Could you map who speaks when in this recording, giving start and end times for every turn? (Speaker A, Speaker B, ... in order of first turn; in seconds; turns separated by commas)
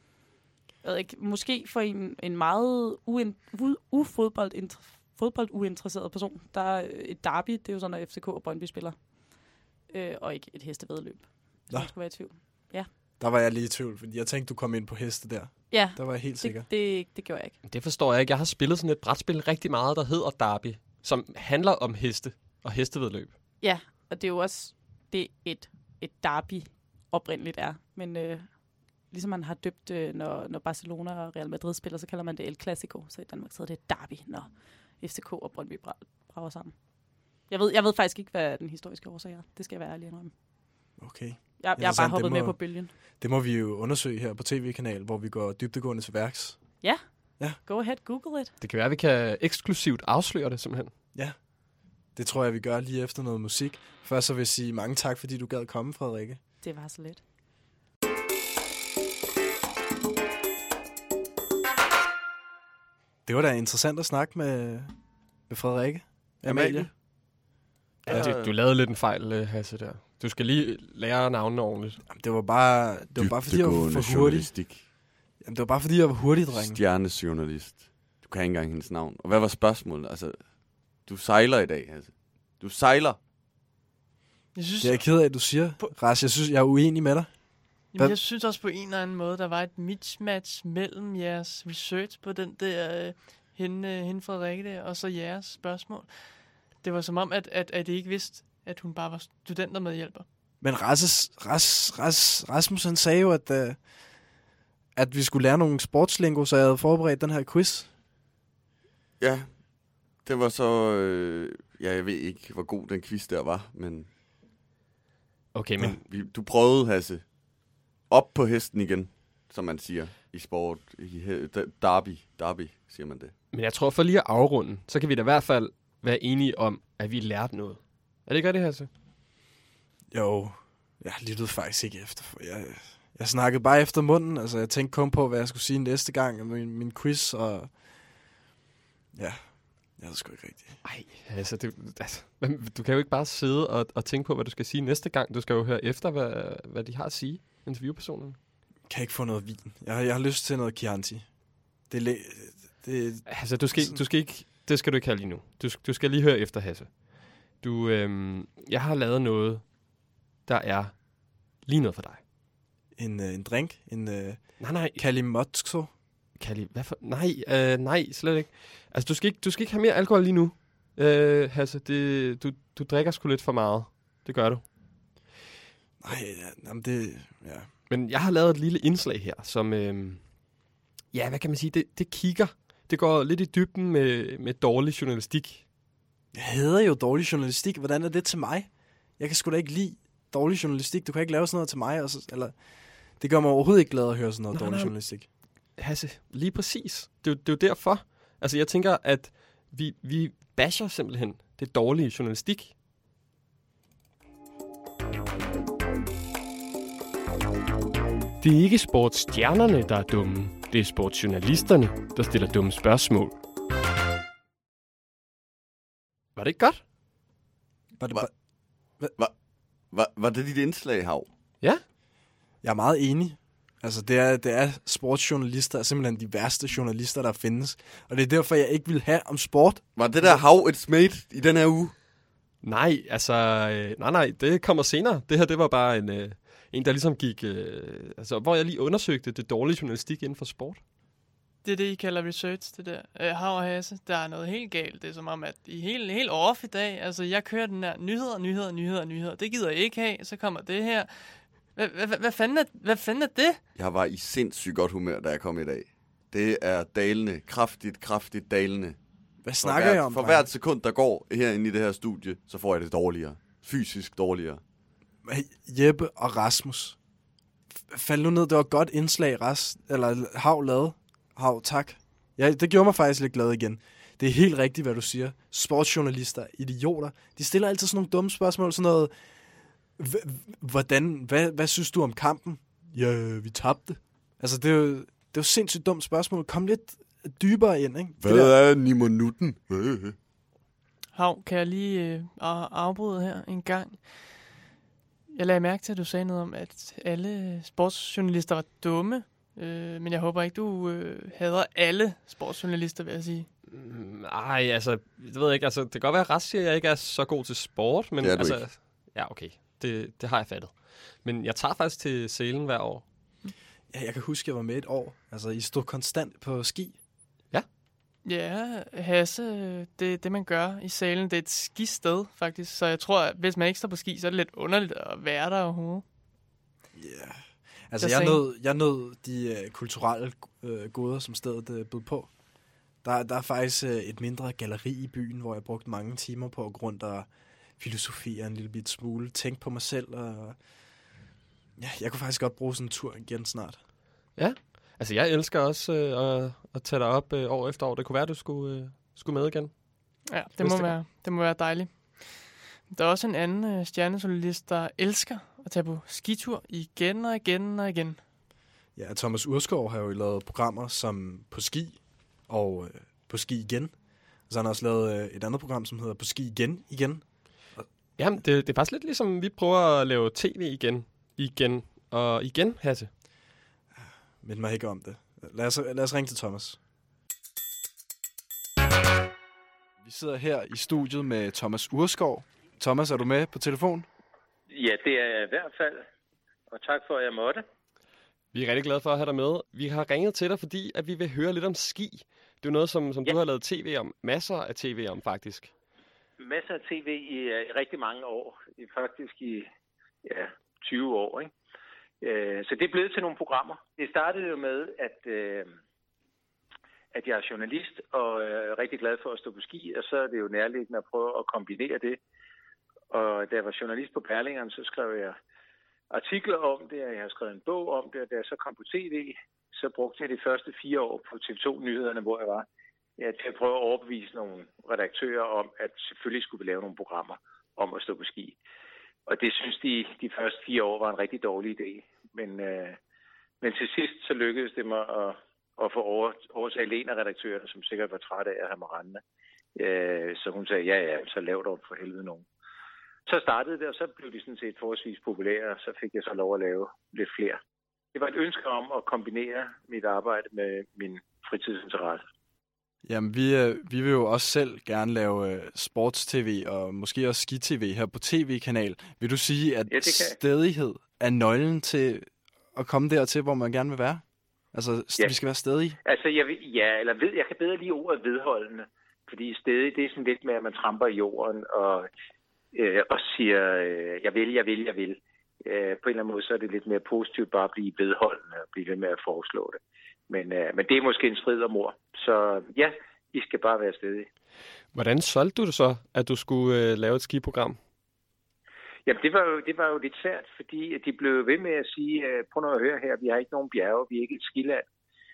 Speaker A: 0.8-12.9, Speaker B: 13.2-16.7, Speaker A: 15.7-17.6, Speaker C: 17.6-23.4, Speaker A: 23.6-40.3, Speaker B: 41.0-47.6, Speaker A: 41.6-42.9, Speaker A: 46.8-48.5, Speaker C: 48.6-50.9, Speaker B: 51.1-51.5, Speaker B: 52.1-56.4, Speaker A: 56.6-57.2, Speaker B: 63.2-65.0, Speaker B: 65.5-66.9, Speaker D: 66.4-66.9, Speaker C: 68.0-72.0, Speaker D: 68.1-68.5, Speaker B: 72.1-74.5, Speaker D: 73.2-74.8, Speaker B: 75.4-76.8, Speaker D: 76.5-80.5, Speaker D: 81.0-83.2, Speaker E: 84.6-85.9, Speaker B: 84.8-88.2, Speaker E: 87.9-100.3, Speaker B: 100.6-103.9, Speaker B: 105.0-107.9, Speaker D: 109.2-109.6, Speaker D: 110.2-114.1, Speaker C: 115.5-116.0, Speaker D: 115.8-117.3, Speaker D: 118.1-123.3, Speaker C: 123.5-128.9, Speaker B: 130.1-137.8, Speaker B: 139.1-140.8, Speaker C: 140.8-148.4, Speaker B: 148.9-151.3, Speaker B: 151.9-154.0, Speaker C: 153.3-159.7, Speaker C: 160.4-162.2, Speaker B: 162.9-165.9, Speaker C: 164.6-165.0, Speaker C: 166.3-174.7, Speaker B: 176.0-177.7, Speaker C: 177.9-180.3, Speaker C: 181.1-185.7, Speaker B: 186.3-195.3, Speaker C: 194.5-194.9, Speaker C: 195.8-202.7, Speaker C: 208.4-213.4, Speaker C: 216.4-216.8, Speaker B: 218.0-218.3, Speaker D: 219.9-221.3, Speaker B: 222.6-230.4, Speaker D: 229.9-231.9, Speaker C: 232.6-240.8, Speaker E: 241.6-253.6, Speaker D: 253.8-259.0, Speaker B: 259.4-260.5, Speaker D: 259.6-264.6, Speaker B: 265.2-267.0, Speaker B: 267.9-279.1, Speaker B: 280.0-288.6, Speaker D: 288.2-290.2, Speaker E: 291.1-294.5, Speaker E: 295.3-303.5, Speaker C: 303.7-313.1, Speaker D: 308.2-308.8, Speaker B: 313.9-317.0, Speaker E: 318.2-326.0, Speaker B: 326.9-332.3, Speaker E: 328.0-328.4, Speaker B: 333.0-340.6, Speaker B: 341.8-343.8, Speaker C: 344.4-349.7, Speaker E: 350.3-358.2, Speaker C: 350.6-350.9, Speaker B: 359.0-367.2, Speaker C: 368.2-373.1, Speaker B: 373.9-376.8, Speaker B: 380.0-384.1, Speaker F: 384.7-386.1, Speaker F: 386.7-387.6, Speaker C: 388.5-395.7, Speaker F: 396.4-399.7, Speaker F: 400.2-401.5, Speaker F: 402.2-405.8, Speaker F: 407.1-412.2, Speaker F: 413.1-415.4, Speaker F: 416.1-422.7, Speaker F: 423.2-428.6, Speaker F: 429.3-433.0, Speaker F: 433.6-439.2, Speaker F: 439.8-442.5, Speaker F: 443.3-447.6, Speaker F: 448.1-452.2, Speaker B: 453.1-466.0, Speaker F: 459.9-460.4, Speaker F: 466.1-472.1, Speaker F: 472.7-484.3, Speaker C: 484.9-487.8, Speaker F: 489.1-494.9